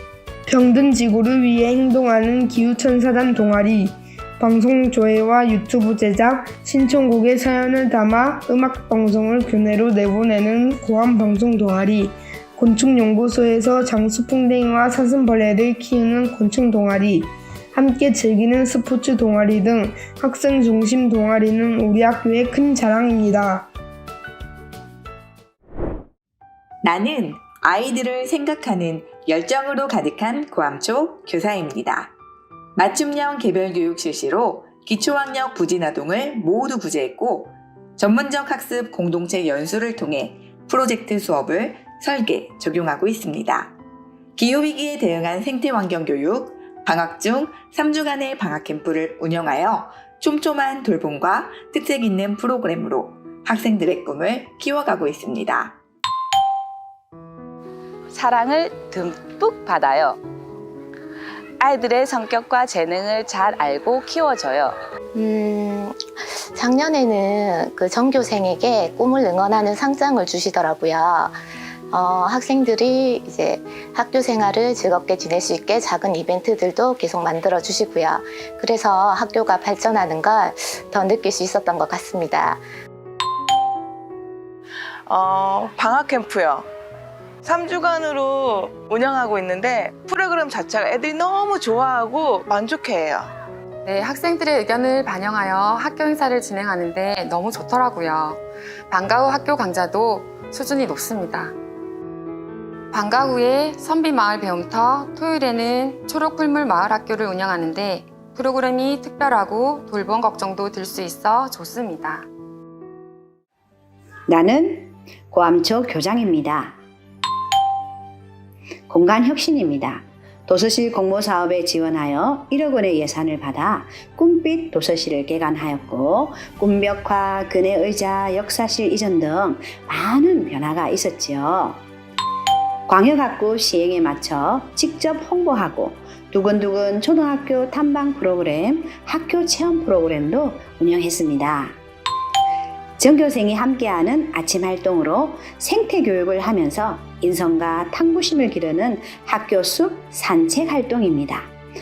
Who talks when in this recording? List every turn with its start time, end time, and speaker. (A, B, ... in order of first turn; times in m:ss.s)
0:00.5-0:23.7 A
0:26.8-0:32.1 B
0:32.8-0:43.8 B
0:44.4-0:55.8 B
0:58.1-1:00.2 C
1:01.6-1:04.8 C
1:05.1-1:11.4 D
1:11.9-1:22.6 D
1:25.1-1:26.6 E
1:27.4-1:33.2 E
1:33.8-1:41.5 F
1:42.9-1:52.3 F
1:54.3-1:56.8 G
1:58.9-2:11.8 G
2:12.9-2:21.8 G
2:23.0-2:31.5 G